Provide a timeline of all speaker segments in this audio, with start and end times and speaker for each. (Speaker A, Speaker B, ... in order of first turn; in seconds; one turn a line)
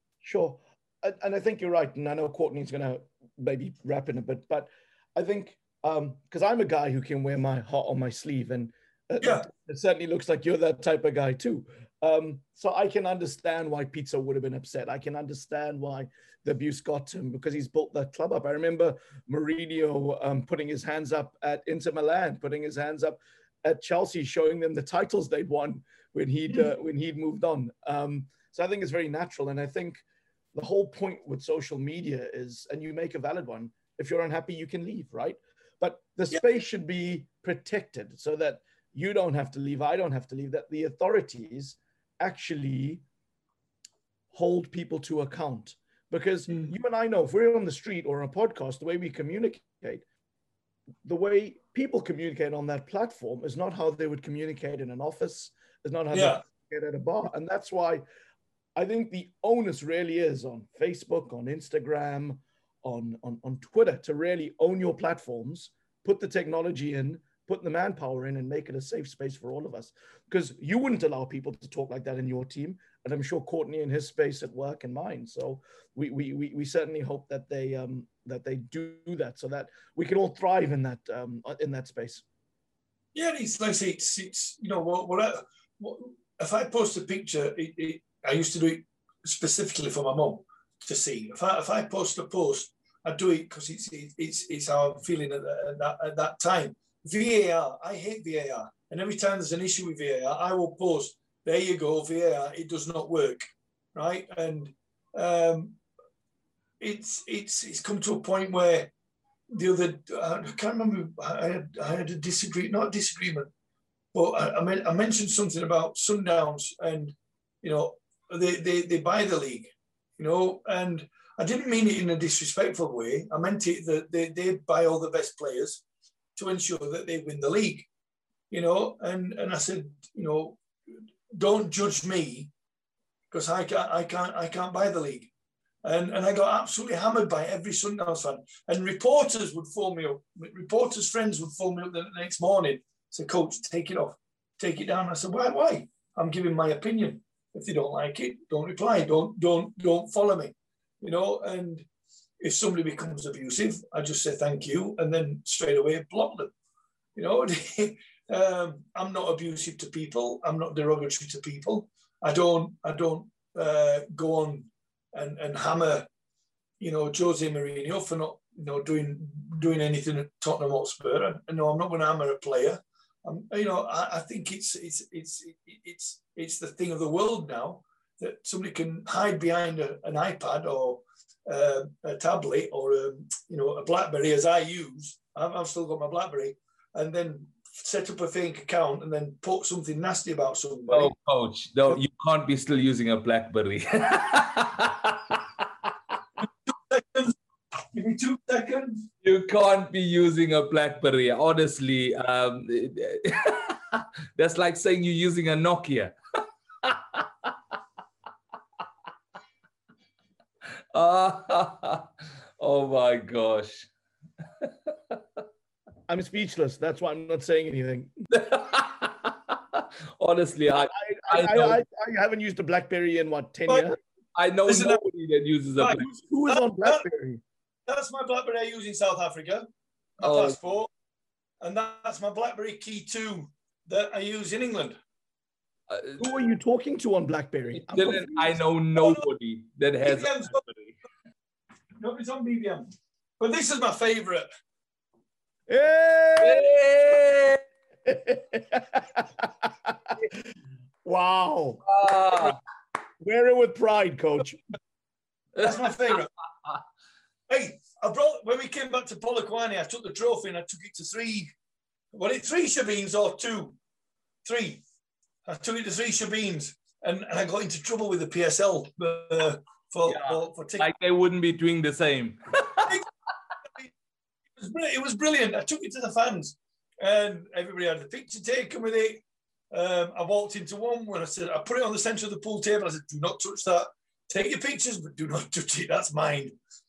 Speaker A: 0.2-30.0
Speaker B: 9.2-9.5
Speaker A: 30.5-43.0
Speaker A: 44.3-50.0
Speaker A: 51.0-58.0
Speaker B: 56.1-56.4
Speaker A: 58.8-82.2
Speaker B: 83.1-103.4
Speaker B: 103.9-105.8
Speaker B: 106.8-108.9
Speaker B: 109.5-113.5
Speaker B: 114.1-125.8
Speaker B: 126.3-127.9
Speaker B: 128.5-132.5
Speaker B: 133.3-135.3
Speaker B: 135.8-151.8
Speaker B: 152.4-156.5
Speaker B: 157.2-166.1
Speaker B: 166.8-191.1
Speaker C: 190.9-195.9
Speaker B: 196.6-197.3
Speaker B: 197.9-199.0
Speaker C: 199.2-206.1
Speaker C: 206.8-207.5
Speaker C: 210.9-213.9
Speaker C: 214.6-215.2
Speaker A: 216.1-218.1
Speaker C: 218.3-221.8
Speaker A: 220.8-224.0
Speaker C: 224.3-226.1
Speaker B: 224.6-225.0
Speaker B: 225.8-227.0
Speaker A: 226.0-227.4
Speaker B: 227.9-229.7
Speaker B: 230.2-230.9
Speaker C: 230.2-230.6
Speaker B: 231.6-234.9
Speaker C: 235.9-236.2
Speaker A: 236.2-238.6
Speaker C: 237.8-240.9
Speaker B: 238.9-239.2
Speaker B: 240.0-240.6
Speaker B: 242.0-242.8
Speaker B: 243.4-244.5
Speaker A: 245.7-246.9
Speaker C: 246.4-247.6
Speaker A: 248.1-250.0
Speaker A: 251.0-252.6
Speaker C: 251.8-252.6
Speaker A: 253.2-254.6
Speaker B: 255.6-256.3
Speaker B: 257.5-261.5
Speaker B: 262.1-263.8
Speaker B: 264.4-264.8
Speaker B: 265.4-270.9
Speaker C: 270.0-273.0
Speaker B: 274.6-286.6